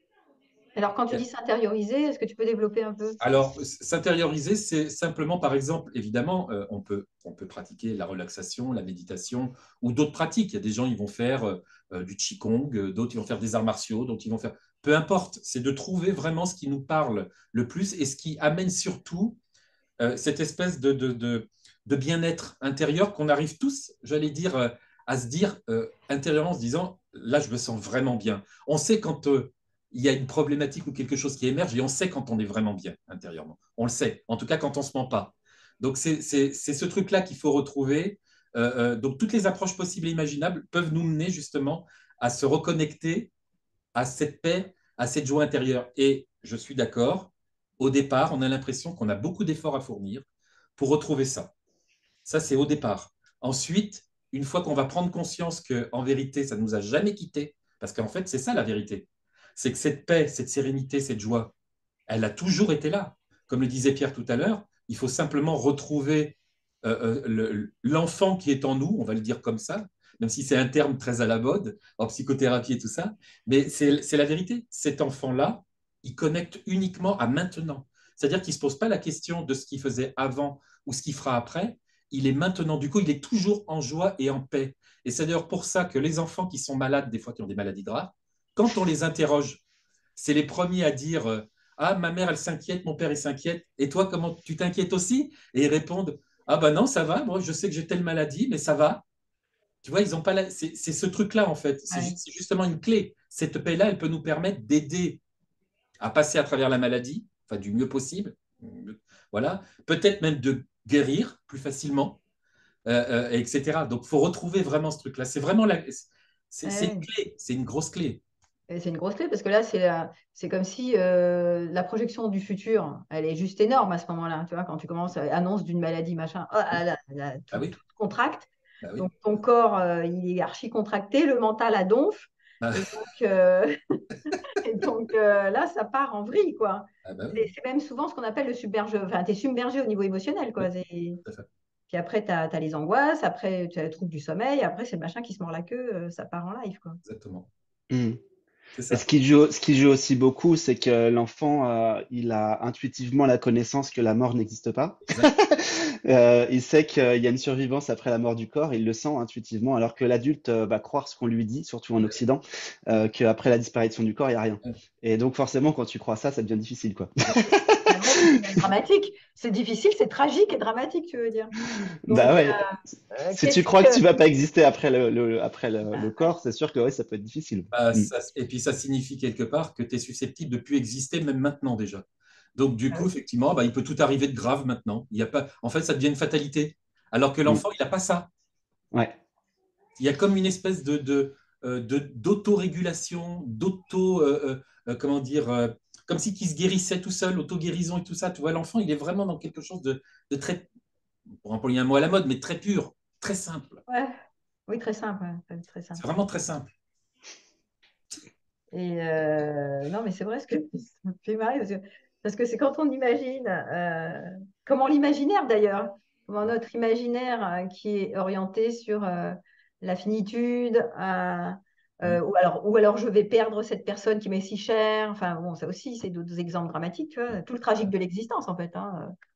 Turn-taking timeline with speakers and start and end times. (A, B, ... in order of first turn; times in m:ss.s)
0:00.8-0:03.2 A
0:03.2-0:19.4 B
0:20.0-0:43.3 B
0:43.9-0:50.2 B
0:50.8-0:51.5 B
0:52.2-1:01.5 B
1:02.1-1:29.6 B
1:30.2-1:39.0 B
1:39.8-1:45.2 B
1:41.9-1:42.2 A
1:46.0-1:52.2 B
1:52.8-1:58.2 B
1:56.6-1:57.1 A
1:58.7-2:21.2 A
2:08.8-2:09.1 B
2:12.6-2:12.9 B
2:17.0-2:17.4 B
2:21.9-2:27.0 A
2:27.0-2:27.5 B
2:27.9-2:28.2 C
2:28.7-2:29.0 B
2:28.9-2:48.0 C
2:47.8-2:51.5 A
2:52.1-2:54.0 A
2:52.1-2:52.6 C
2:53.3-2:58.1 C
2:57.7-3:02.0 B
3:02.6-3:08.3 B
3:10.0-3:20.7 B
3:21.4-3:23.8 B
3:23.9-3:24.1 A
3:24.7-3:26.0 A
3:26.0-3:26.7 B
3:28.7-3:49.1 A